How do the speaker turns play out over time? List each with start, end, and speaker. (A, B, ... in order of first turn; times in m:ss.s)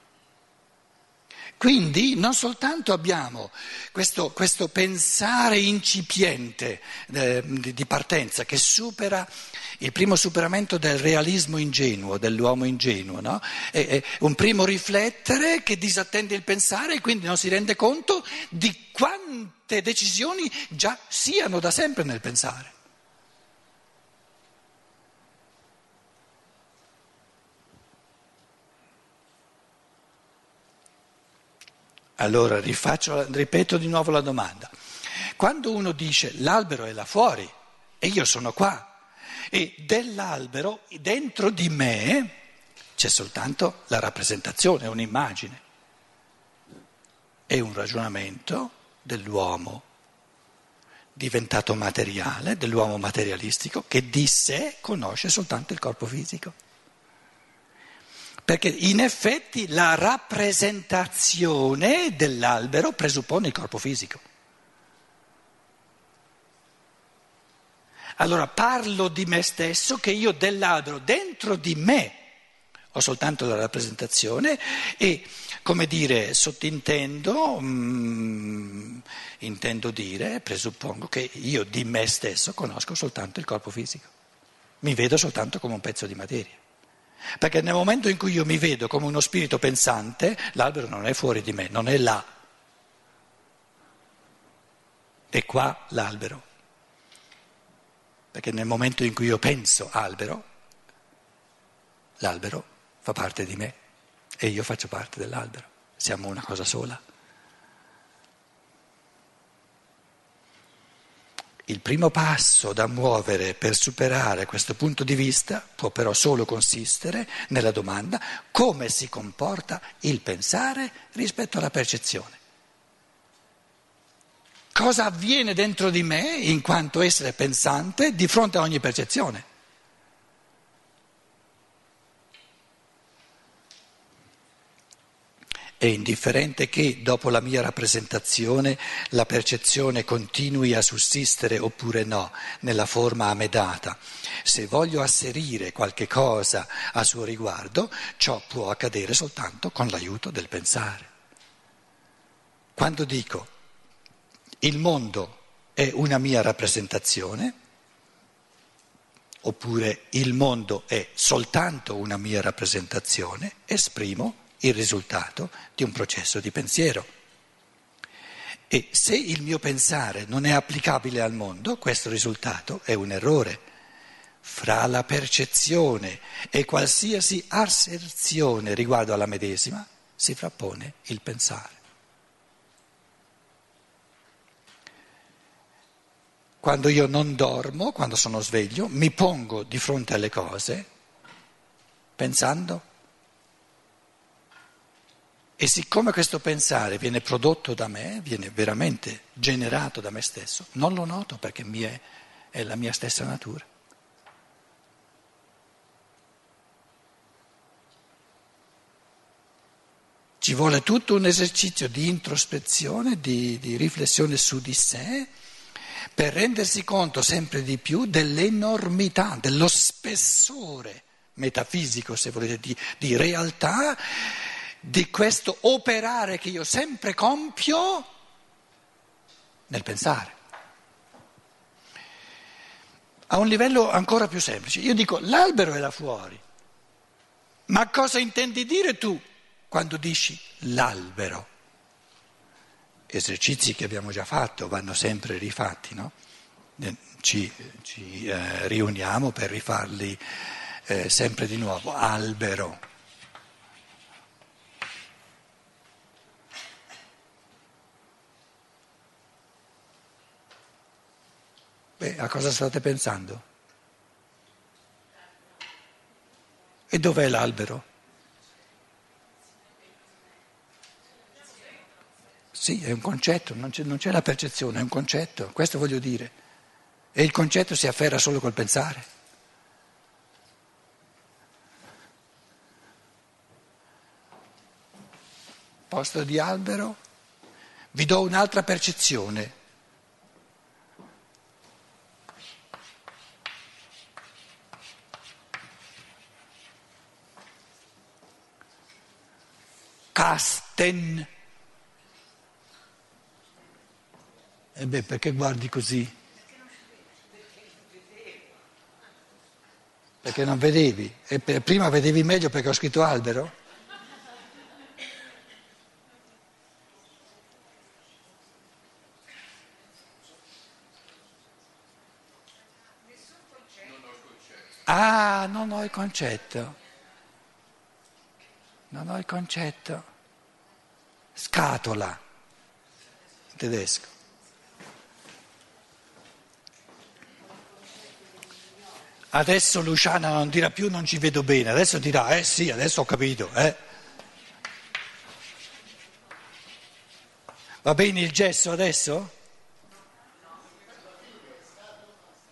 0:01.6-0:22.7 A
0:32.2-0:34.7 A
0:35.4-0:38.9 A
0:39.5-0:42.3 A
0:43.0-0:45.6 A
0:47.5-0:49.8 A
0:51.1-0:56.5 A
0:58.4-1:04.2 A
1:08.2-1:12.2 A
1:12.9-1:24.1 A
1:24.8-1:26.6 A
1:27.4-1:32.2 A
1:35.3-1:36.4 A
1:38.3-1:40.4 A
1:42.2-1:43.8 A
1:44.4-1:47.0 A
1:51.7-2:02.4 A
2:04.7-2:09.4 A
2:15.8-2:31.1 A
2:32.8-2:33.5 A
2:34.6-2:37.5 A
2:39.4-2:47.1 A
2:48.7-2:53.6 A
2:54.4-3:01.8 A
3:06.6-3:10.9 A
3:12.2-3:12.8 A
3:15.6-3:23.7 A
3:30.4-3:35.3 A
3:36.2-3:48.1 A
3:49.7-3:50.3 A
3:53.3-3:56.4 A
3:57.7-4:01.5 A
4:03.1-4:06.1 A
4:06.8-4:12.8 A
4:22.0-4:23.4 A
4:26.9-4:27.8 A
4:32.5-4:36.3 A
4:37.1-4:39.1 A
4:45.9-4:47.0 A
4:47.9-4:49.5 A
5:00.1-5:01.3 A
5:04.8-5:06.1 A
5:10.2-5:13.5 A
5:24.9-5:26.8 A
5:28.9-5:30.0 A
5:31.4-5:32.2 A
5:33.5-5:34.1 A
5:39.3-5:43.8 A
5:47.8-5:49.3 A